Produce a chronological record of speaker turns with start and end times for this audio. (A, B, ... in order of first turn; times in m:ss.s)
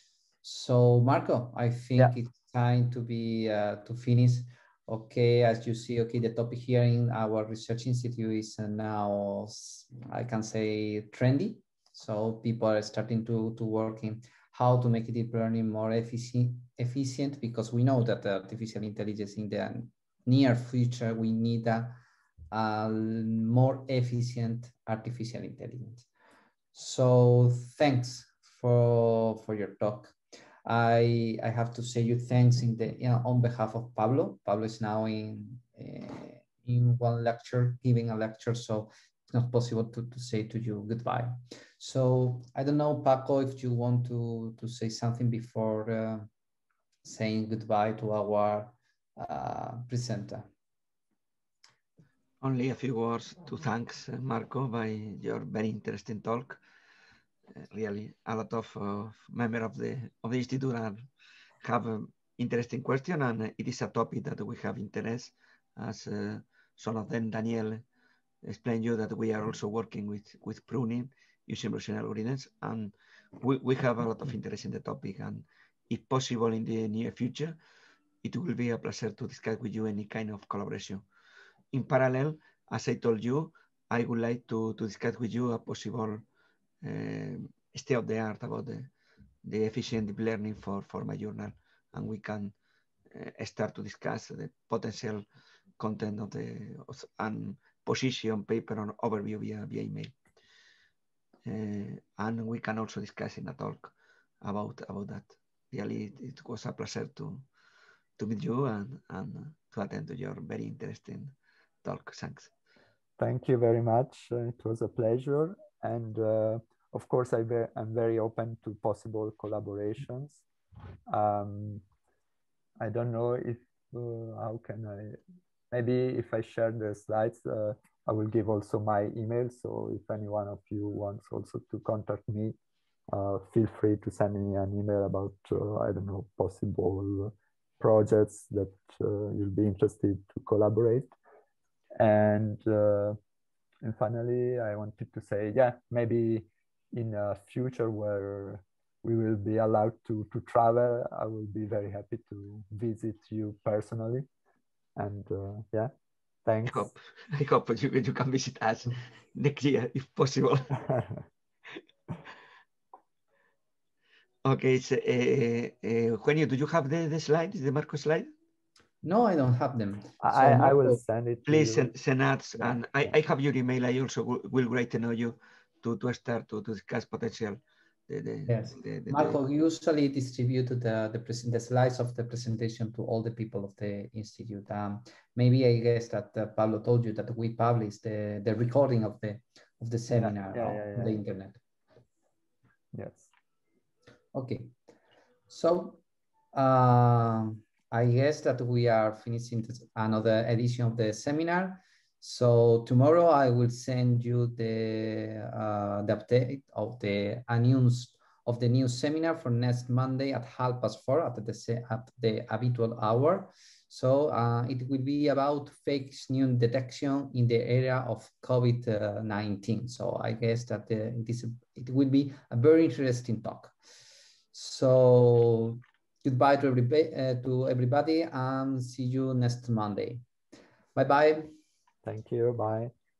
0:00.4-0:22.0 A
0:22.5-0:26.0 A
0:26.7-0:46.3 A
0:47.0-0:50.5 A
0:52.4-0:56.6 B
0:57.6-1:01.1 B
1:01.6-1:07.8 B
1:08.4-1:17.6 B
1:18.2-1:21.0 B
1:21.7-1:26.2 B
1:26.8-1:28.9 B
1:29.4-1:32.5 B
1:33.1-1:35.3 B
1:35.8-1:40.2 B
1:41.4-1:47.4 B
1:48.2-1:52.5 B
1:53.2-2:00.4 C
2:01.1-2:01.8 C
2:02.8-2:05.2 C
2:05.7-2:12.6 C
2:13.1-2:21.1 C
2:22.0-2:23.2 C
2:23.8-2:34.2 C
2:35.0-2:35.9 C
2:36.4-2:36.9 C
2:36.6-2:40.7 B
2:40.8-2:41.1 C
2:44.4-2:48.3 B
2:49.0-2:51.0 A
2:50.2-2:51.9 C
2:51.5-2:59.4 B
2:58.5-3:11.6 A
3:10.2-3:11.2 C
3:12.9-3:13.3 C
3:14.3-3:14.7 A
3:15.5-3:16.0 A
3:16.5-3:43.7 A
3:44.5-3:50.2 A
3:50.9-3:51.5 A
3:52.0-3:52.9 C